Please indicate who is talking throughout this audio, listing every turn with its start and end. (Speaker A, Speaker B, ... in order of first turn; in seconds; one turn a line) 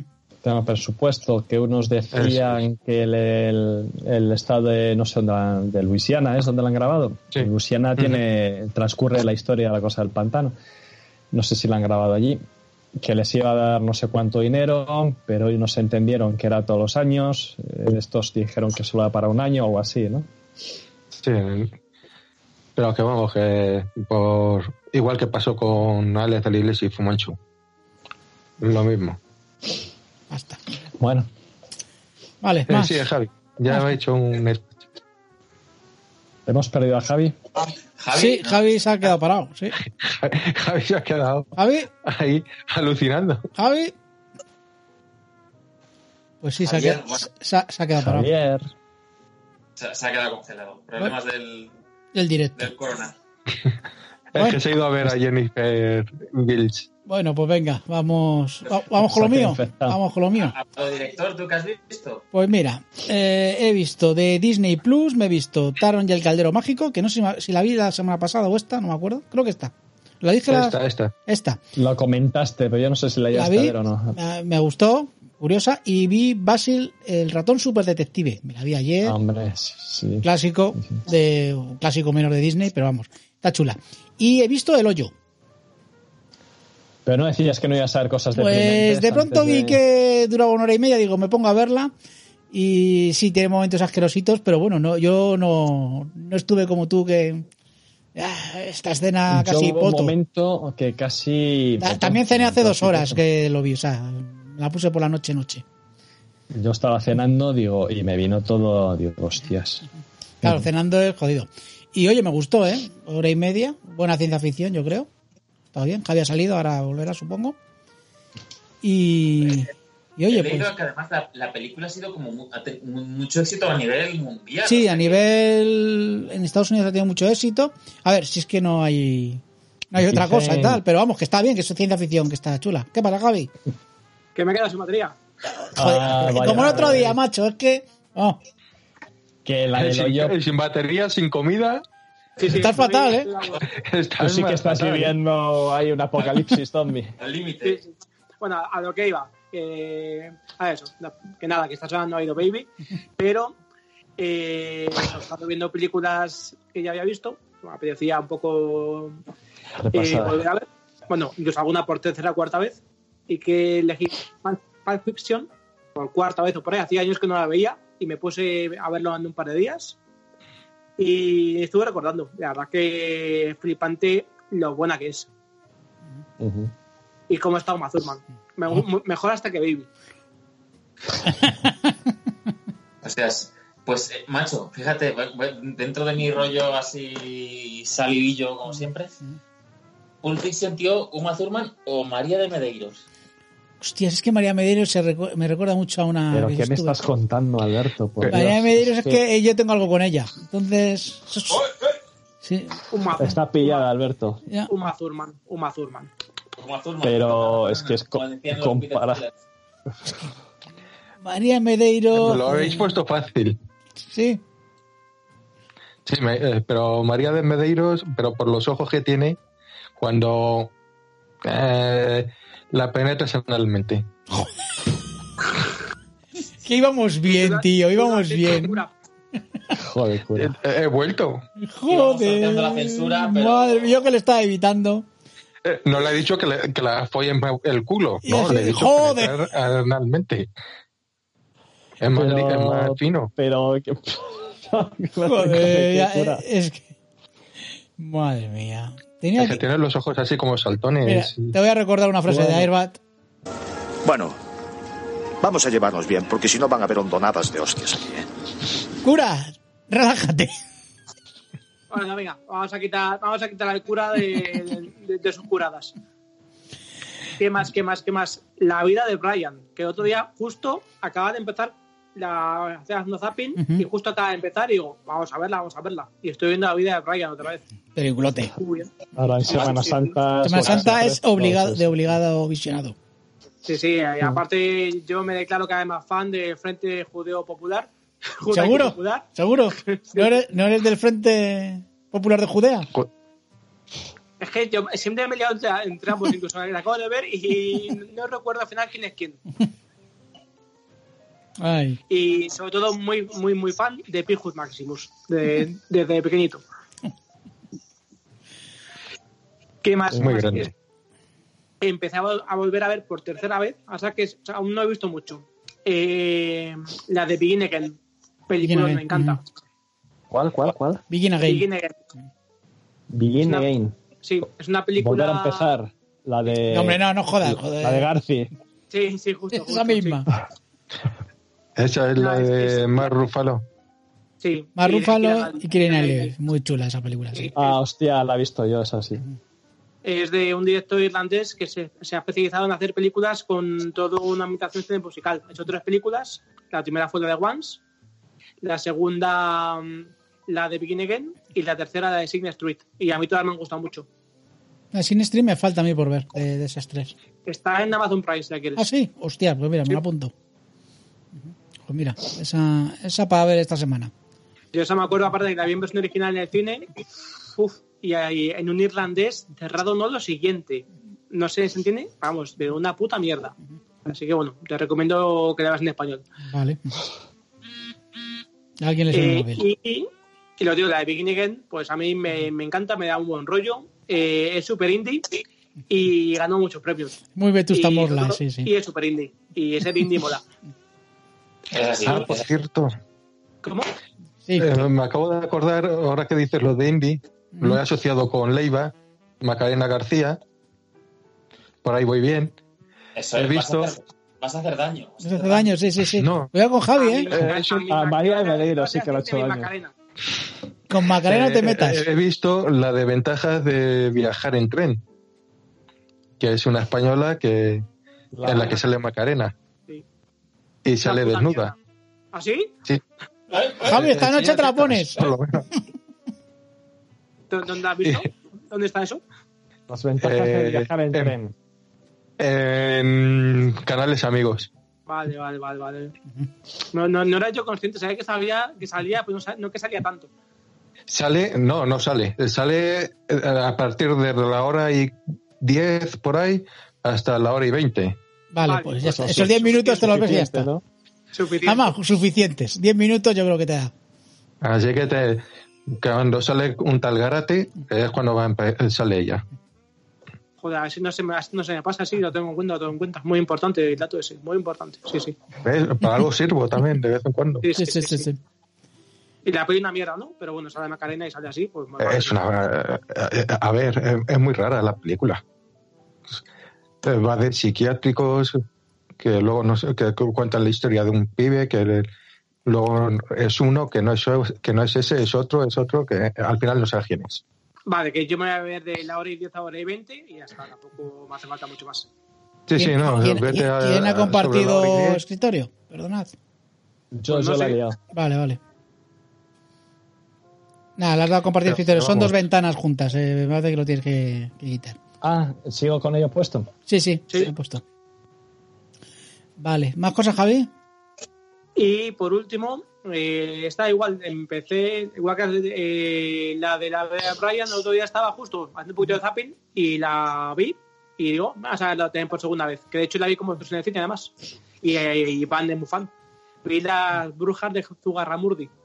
Speaker A: 0.4-10.5
Speaker B: 2.1-2.5
Speaker B: 7.3-8.2
Speaker A: 11.3-12.4
Speaker A: 13.0-20.3
Speaker B: 21.2-21.7
Speaker B: 22.8-27.4
Speaker B: 28.6-29.2
Speaker C: 30.3-30.6
Speaker A: 31.0-31.3
Speaker C: 32.4-33.1
Speaker B: 32.7-34.7
Speaker A: 36.5-37.4
Speaker D: 37.7-39.1
Speaker C: 38.1-39.8
Speaker B: 39.9-43.5
Speaker C: 41.6-41.9
Speaker C: 43.6-43.9
Speaker C: 46.4-48.3
Speaker D: 46.6-47.3
Speaker A: 48.0-48.7
Speaker D: 49.8-51.7
Speaker C: 52.1-52.7
Speaker D: 52.6-53.1
Speaker B: 54.3-56.9
Speaker C: 57.1-60.5
Speaker A: 59.0-60.0
Speaker D: 60.4-62.2
Speaker C: 62.3-71.6
Speaker B: 70.5-71.1
Speaker A: 71.8-74.2
Speaker C: 73.3-79.2
Speaker A: 79.0-80.3
Speaker C: 80.2-85.1
Speaker A: 87.0-89.8
Speaker C: 88.3-91.9
Speaker C: 92.5-97.5
Speaker C: 98.2-100.2
Speaker A: 99.3-103.2
Speaker C: 101.8-105.6
Speaker A: 106.5-109.8
Speaker A: 110.4-110.7
Speaker C: 110.4-115.1
Speaker C: 115.7-117.6
Speaker C: 118.8-120.7
Speaker D: 120.3-125.2
Speaker C: 124.7-129.4
Speaker C: 129.9-133.5
Speaker A: 130.0-130.8
Speaker E: 134.3-135.2
Speaker C: 135.6-138.4
Speaker A: 135.8-137.2
Speaker A: 139.4-140.4
Speaker B: 139.8-141.8
Speaker E: 142.4-143.6
Speaker C: 142.4-143.3
Speaker B: 143.8-145.1
Speaker A: 144.2-147.1
Speaker D: 147.2-147.8
Speaker E: 147.6-147.9
Speaker E: 148.4-153.6
Speaker E: 154.2-159.2
Speaker A: 159.8-160.5
Speaker E: 159.9-170.0
Speaker E: 171.0-175.3
Speaker A: 176.4-176.7
Speaker E: 177.3-179.9
Speaker D: 183.0-189.1
Speaker D: 190.2-193.0
Speaker C: 193.8-197.0
Speaker A: 196.3-199.2
Speaker C: 198.3-201.7
Speaker D: 201.5-202.0
Speaker C: 202.4-202.8
Speaker E: 202.9-203.8
Speaker A: 203.2-204.4
Speaker E: 204.7-206.1
Speaker D: 206.6-209.4
Speaker A: 207.0-209.2
Speaker C: 211.2-213.0
Speaker B: 212.1-213.6
Speaker C: 214.1-214.4
Speaker B: 216.1-219.4
Speaker B: 220.0-220.7
Speaker B: 221.4-224.1
Speaker C: 226.6-228.8
Speaker E: 227.3-228.9
Speaker A: 229.7-230.6
Speaker B: 230.4-231.4
Speaker C: 231.6-235.1
Speaker D: 231.9-234.1
Speaker B: 235.7-240.5
Speaker C: 238.2-239.4
Speaker B: 242.0-243.3
Speaker A: 242.1-246.4
Speaker C: 245.2-246.9
Speaker C: 248.0-249.6
Speaker B: 249.4-251.6
Speaker C: 251.1-253.0
Speaker A: 252.3-252.7
Speaker F: 254.0-254.4
Speaker F: 255.4-258.3
Speaker C: 259.0-260.5
Speaker E: 261.9-265.9
Speaker E: 267.4-277.6
Speaker C: 273.6-273.9
Speaker C: 278.0-278.6
Speaker E: 278.5-280.1
Speaker A: 279.1-282.1
Speaker C: 280.4-283.0
Speaker E: 283.6-289.3
Speaker C: 288.5-292.9
Speaker E: 289.9-290.3
Speaker E: 294.4-299.4
Speaker C: 301.6-302.0
Speaker E: 302.1-306.6
Speaker E: 309.8-310.7
Speaker B: 310.2-310.7
Speaker E: 311.8-319.4
Speaker C: 318.6-319.4
Speaker A: 320.3-321.0
Speaker C: 321.1-321.7
Speaker E: 321.4-322.0
Speaker A: 323.1-323.9
Speaker E: 323.4-323.7
Speaker E: 324.2-325.7
Speaker A: 325.0-328.5
Speaker C: 326.7-328.1
Speaker E: 328.9-330.2
Speaker C: 329.5-330.3
Speaker B: 331.8-333.6
Speaker E: 332.2-333.1
Speaker E: 334.4-336.3
Speaker C: 334.8-337.5
Speaker E: 337.3-337.8
Speaker A: 337.6-339.3
Speaker E: 340.0-347.8
Speaker E: 348.6-354.1
Speaker C: 354.9-357.1
Speaker E: 357.5-358.8
Speaker C: 358.8-360.3
Speaker C: 361.9-364.1
Speaker E: 364.7-366.9
Speaker E: 367.5-376.2
Speaker C: 376.5-376.9
Speaker C: 378.8-379.6
Speaker E: 379.1-387.2
Speaker C: 387.4-388.7
Speaker E: 387.7-390.4
Speaker D: 391.7-392.5
Speaker B: 392.0-392.9
Speaker E: 393.6-393.9
Speaker C: 394.5-394.9
Speaker B: 394.6-400.4
Speaker C: 397.5-397.8
Speaker B: 401.8-402.5
Speaker D: 403.1-405.7
Speaker B: 403.4-404.0
Speaker C: 405.2-407.3
Speaker B: 406.2-406.5
Speaker E: 406.9-409.9
Speaker B: 407.3-407.8
Speaker A: 407.4-409.7
Speaker C: 410.9-412.1
Speaker B: 411.2-415.0
Speaker B: 416.4-417.9
Speaker A: 418.3-418.8
Speaker B: 418.4-419.5
Speaker B: 420.9-421.7
Speaker E: 421.0-421.8
Speaker E: 422.3-422.7
Speaker D: 423.5-424.3
Speaker C: 423.8-425.2
Speaker B: 423.8-425.7
Speaker E: 427.5-429.2
Speaker A: 429.9-431.5
Speaker B: 430.2-431.4
Speaker B: 432.4-434.7
Speaker E: 435.1-436.1
Speaker E: 436.9-440.3
Speaker B: 441.1-448.2
Speaker C: 448.5-450.7
Speaker E: 448.7-450.0
Speaker A: 449.0-450.8
Speaker E: 451.3-451.9
Speaker C: 451.6-453.9
Speaker B: 454.6-459.4
Speaker E: 460.6-465.4
Speaker B: 465.6-467.7
Speaker E: 467.6-468.3
Speaker C: 467.8-468.4
Speaker E: 469.4-472.4
Speaker B: 472.0-475.4
Speaker B: 477.0-478.6
Speaker B: 479.2-482.1
Speaker B: 482.7-487.4
Speaker E: 487.9-492.1
Speaker B: 492.7-495.2
Speaker C: 492.8-496.3
Speaker A: 497.1-498.0
Speaker E: 497.3-497.8
Speaker C: 498.1-498.6
Speaker C: 501.0-505.0
Speaker B: 501.7-502.3
Speaker A: 505.2-506.7
Speaker C: 506.9-507.8
Speaker C: 509.6-510.7
Speaker E: 511.8-526.1
Speaker E: 526.6-528.7